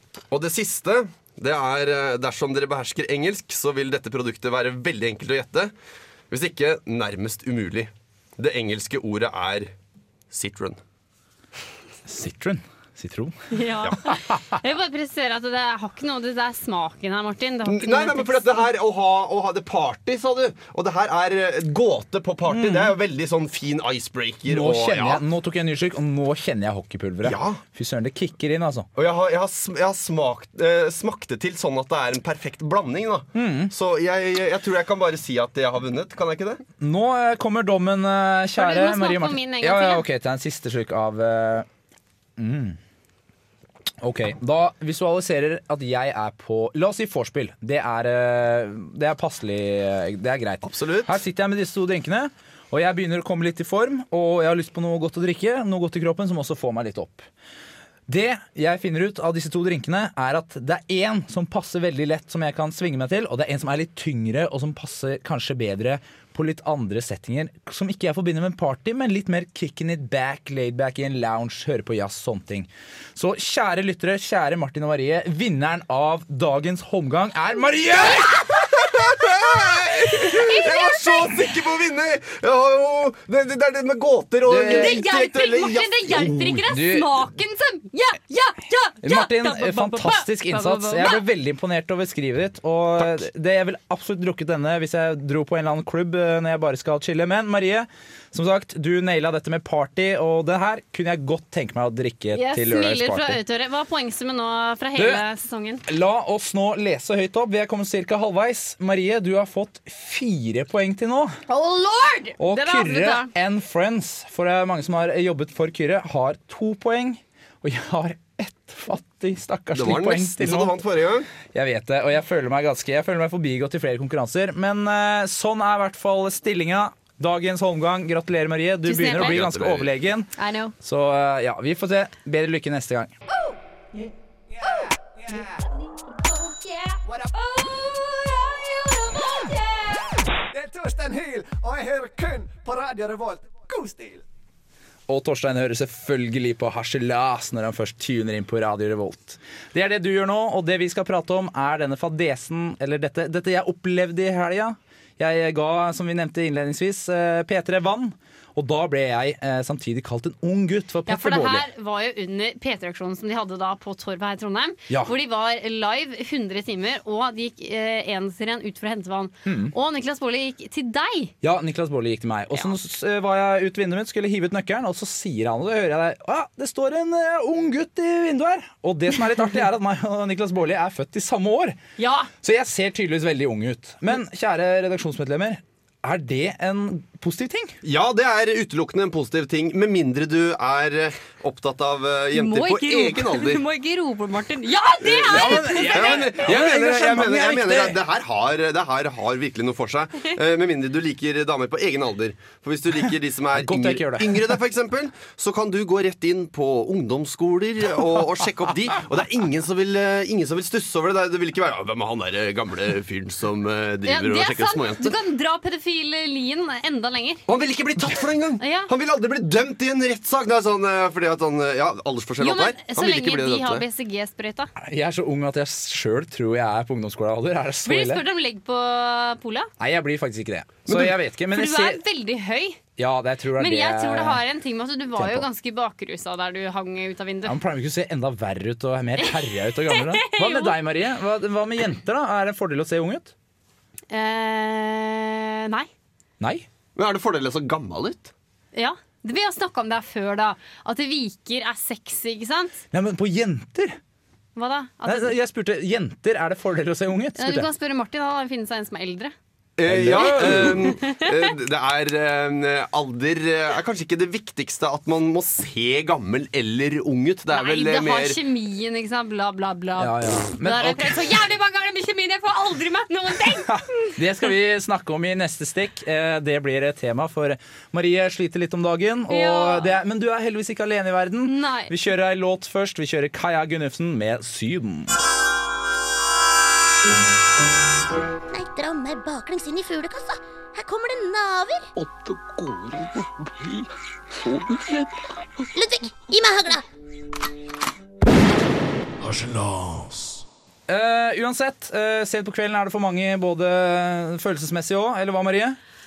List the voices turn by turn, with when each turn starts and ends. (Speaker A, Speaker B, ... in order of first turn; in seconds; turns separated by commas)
Speaker A: 0.3-5.7, Speaker A: 6.3-9.7, Speaker A: 10.3-10.8, Speaker B: 12.1-13.3, Speaker C: 13.5-18.6, Speaker B: 14.1-14.6, Speaker A: 17.6-25.2, Speaker B: 22.5-22.9, Speaker B: 24.5-28.9, Speaker A: 27.2-27.6, Speaker A: 28.9-36.6, Speaker B: 33.4-33.7, Speaker B: 36.8-41.7, Speaker C: 38.5-40.0, Speaker B: 42.4-42.8, Speaker B: 44.0-57.3, Speaker A: 50.6-51.1, Speaker B: 58.1-78.6, Speaker C: 78.1-78.5, Speaker A: 78.1-86.7, Speaker C: 79.6-81.4, Speaker B: 84.5-85.0, Speaker C: 84.7-91.2, Speaker B: 86.7-87.1, Speaker B: 89.0-103.4, Speaker C: 102.3-105.8, Speaker B: 105.0-105.2, Speaker B: 105.9-111.4, Speaker C: 111.5-113.3, Speaker B: 112.4-120.7, Speaker A: 119.7-121.3, Speaker B: 121.5-133.1, Speaker C: 128.8-129.4, Speaker A: 129.1-129.9, Speaker C: 130.4-130.7, Speaker D: 134.5-135.6, Speaker C: 134.6-134.9, Speaker C: 136.1-140.1, Speaker D: 137.0-137.3, Speaker D: 140.5-144.2, Speaker B: 145.1-161.7, Speaker C: 161.1-171.3, Speaker B: 169.4-169.7, Speaker B: 171.4-181.8, Speaker C: 182.0-182.3, Speaker B: 182.4-187.7, Speaker A: 187.8-193.6, Speaker C: 192.3-196.3, Speaker A: 195.0-215.1, Speaker B: 195.2-198.0, Speaker B: 203.5-204.6, Speaker C: 214.1-217.4, Speaker A: 217.5-223.8, Speaker C: 218.6-218.9, Speaker C: 222.4-224.7, Speaker B: 224.8-228.2, Speaker C: 227.8-229.7, Speaker B: 229.8-232.0, Speaker A: 230.9-231.1, Speaker C: 231.5-232.8, Speaker B: 233.0-234.4, Speaker C: 233.6-237.6, Speaker B: 235.2-235.5, Speaker B: 237.4-243.3, Speaker C: 239.9-240.7, Speaker C: 244.1-245.9, Speaker B: 246.4-246.7, Speaker A: 246.9-248.3, Speaker C: 248.7-252.8, Speaker B: 252.9-254.0, Speaker C: 254.6-255.4, Speaker B: 255.0-257.7, Speaker C: 257.4-259.3, Speaker A: 259.8-268.4, Speaker B: 259.9-260.9, Speaker C: 260.1-261.4, Speaker C: 267.5-274.2, Speaker B: 270.0-271.2, Speaker B: 273.5-285.2, Speaker C: 279.3-279.9, Speaker C: 281.4-281.9, Speaker E: 288.5-291.9, Speaker F: 291.9-295.6, Speaker E: 295.7-296.8, Speaker F: 299.2-300.4, Speaker B: 300.9-305.8